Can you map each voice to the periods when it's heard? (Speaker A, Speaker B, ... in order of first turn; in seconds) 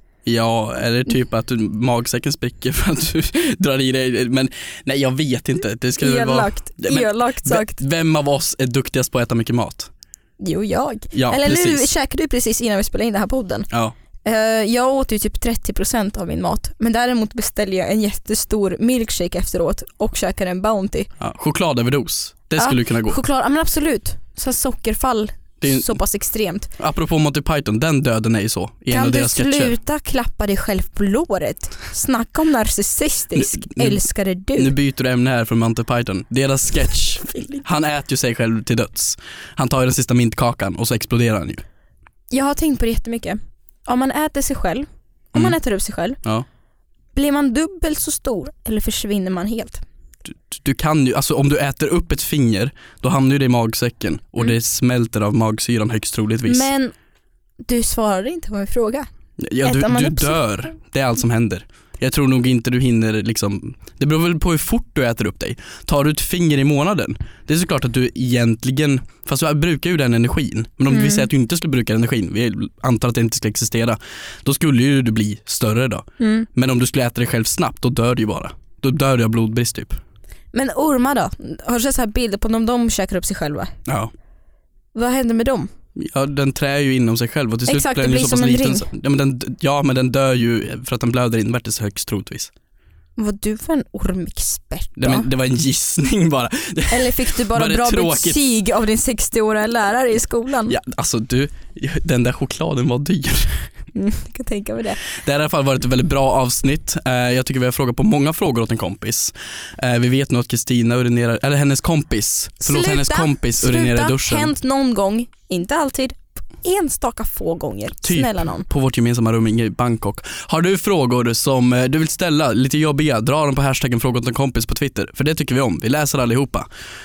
Speaker A: 0.2-9.9, 11.1-11.9, 21.2-23.2, 25.6-25.9, 26.8-29.7, 33.3-34.0, 34.5-41.6, 50.3-56.7, 59.4-80.0, 83.8-84.1, 86.0-92.5, 95.0-98.4, 100.7-103.7, 105.1-114.5, 118.0-126.7
Speaker B: 6.0-7.8, 10.4-13.7, 14.2-21.1, 22.6-26.7, 28.9-34.7, 42.3-46.2, 47.1-49.8, 56.5-56.9, 57.6-59.1, 59.6-60.5, 70.9-71.3, 76.2-76.5, 80.5-83.7, 84.9-85.7, 87.7-88.9, 93.2-95.3, 96.9-100.7, 103.9-105.0, 112.6-118.7